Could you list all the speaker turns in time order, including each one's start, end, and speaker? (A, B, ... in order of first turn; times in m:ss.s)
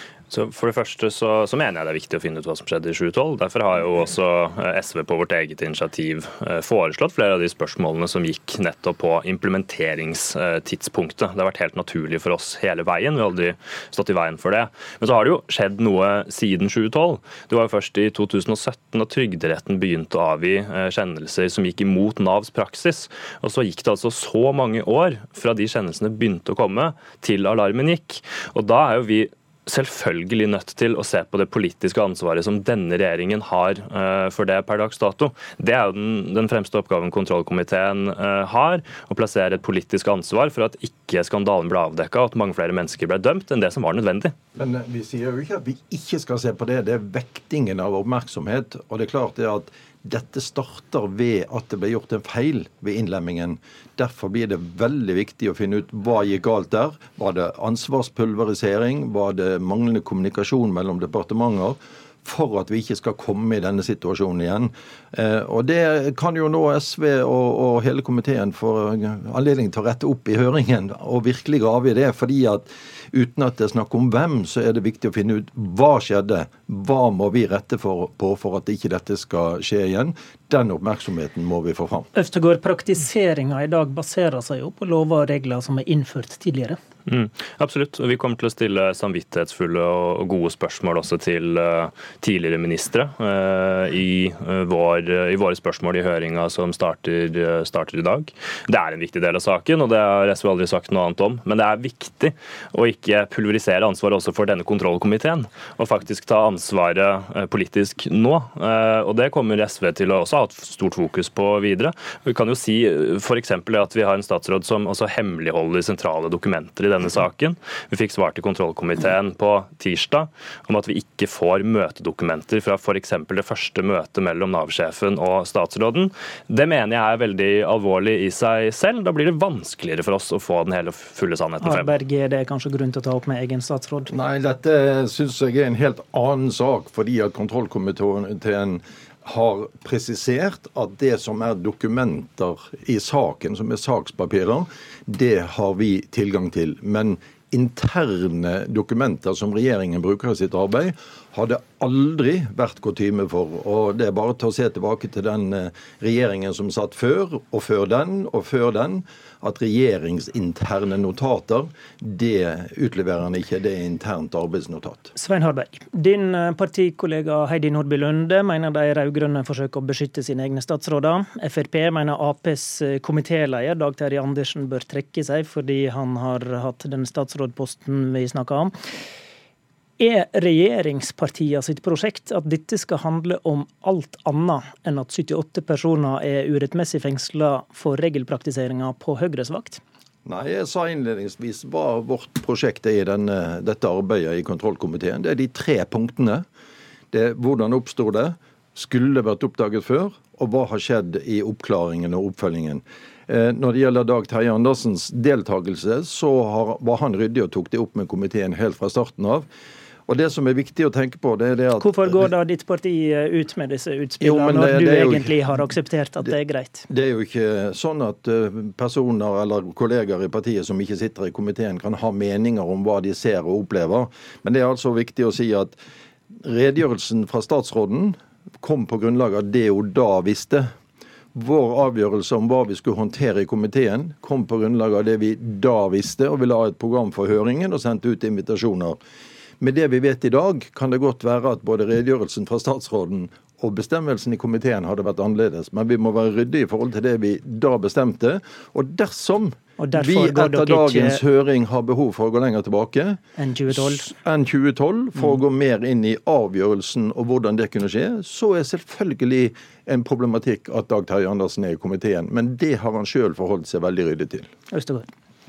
0:00.3-0:44.3 A
0:44.6-1:22.1 B
1:22.2-1:26.8 C
1:27.1-2:11.9 A
2:11.6-2:14.1 C
2:14.1-2:45.1 B
2:45.2-2:58.7 C
3:00.0-3:09.8 C
3:10.3-3:16.4 B
3:17.1-3:29.4 B
3:30.1-3:32.2 B
3:31.8-3:36.9 C
3:34.2-3:35.4 B
3:36.9-3:45.8 B
3:46.4-3:50.7 B
3:51.3-3:59.0 B
3:59.6-4:24.5 B
4:09.8-4:11.2 C
4:13.4-4:14.1 C
4:24.7-4:25.1 C